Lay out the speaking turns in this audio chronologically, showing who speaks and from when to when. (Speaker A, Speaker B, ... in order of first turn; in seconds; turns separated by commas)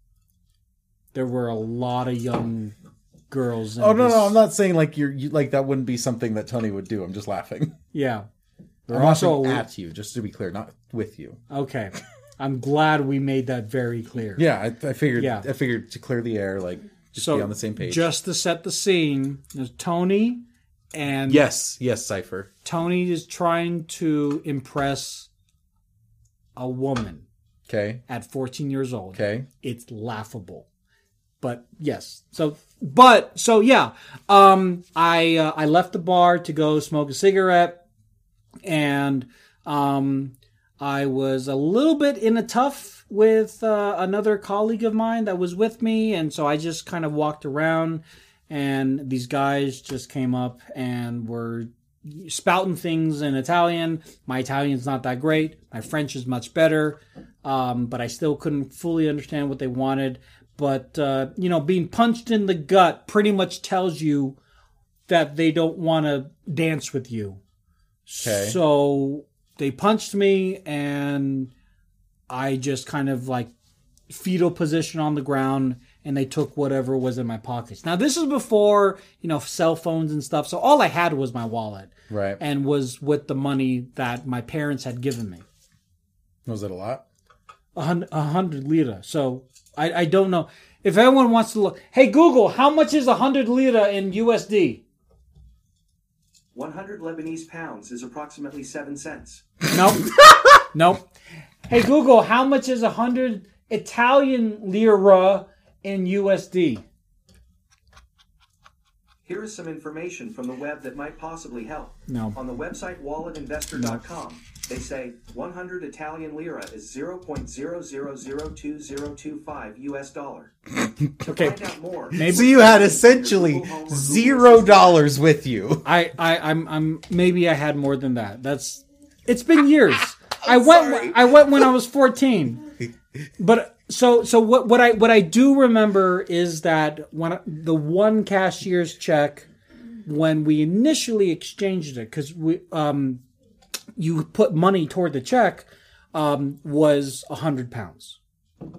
Speaker A: 1.1-2.8, Speaker A: 3.3-4.4, Speaker B: 3.8-7.8, Speaker A: 7.9-8.3, Speaker A: 8.9-9.7, Speaker B: 8.9-11.4, Speaker A: 11.5-14.4, Speaker B: 14.4-18.1, Speaker A: 15.2-15.5, Speaker A: 17.2-20.4, Speaker A: 20.9-21.4, Speaker B: 21.3-22.5, Speaker A: 22.6-25.3, Speaker A: 26.6-27.3, Speaker B: 27.7-28.0, Speaker A: 28.1-30.7, Speaker B: 29.1-29.5, Speaker A: 31.4-37.8, Speaker A: 38.6-64.4, Speaker A: 65.1-67.4, Speaker A: 68.1-71.5, Speaker B: 68.2-68.6, Speaker A: 72.3-73.5, Speaker A: 74.1-85.4, Speaker B: 82.1-82.4, Speaker B: 86.5-87.0, Speaker A: 87.8-94.8, Speaker C: 96.5-99.5, Speaker A: 99.7-101.0, Speaker A: 101.7-106.8, Speaker C: 109.2-120.5, Speaker A: 112.1-112.4, Speaker B: 120.8-121.1, Speaker A: 121.2-121.6, Speaker C: 121.2-125.0, Speaker A: 122.1-122.5, Speaker B: 122.2-125.8, Speaker A: 125.8-132.7, Speaker B: 130.4-131.3, Speaker A: 133.4-139.5, Speaker A: 140.0-143.2, Speaker A: 144.0-148.2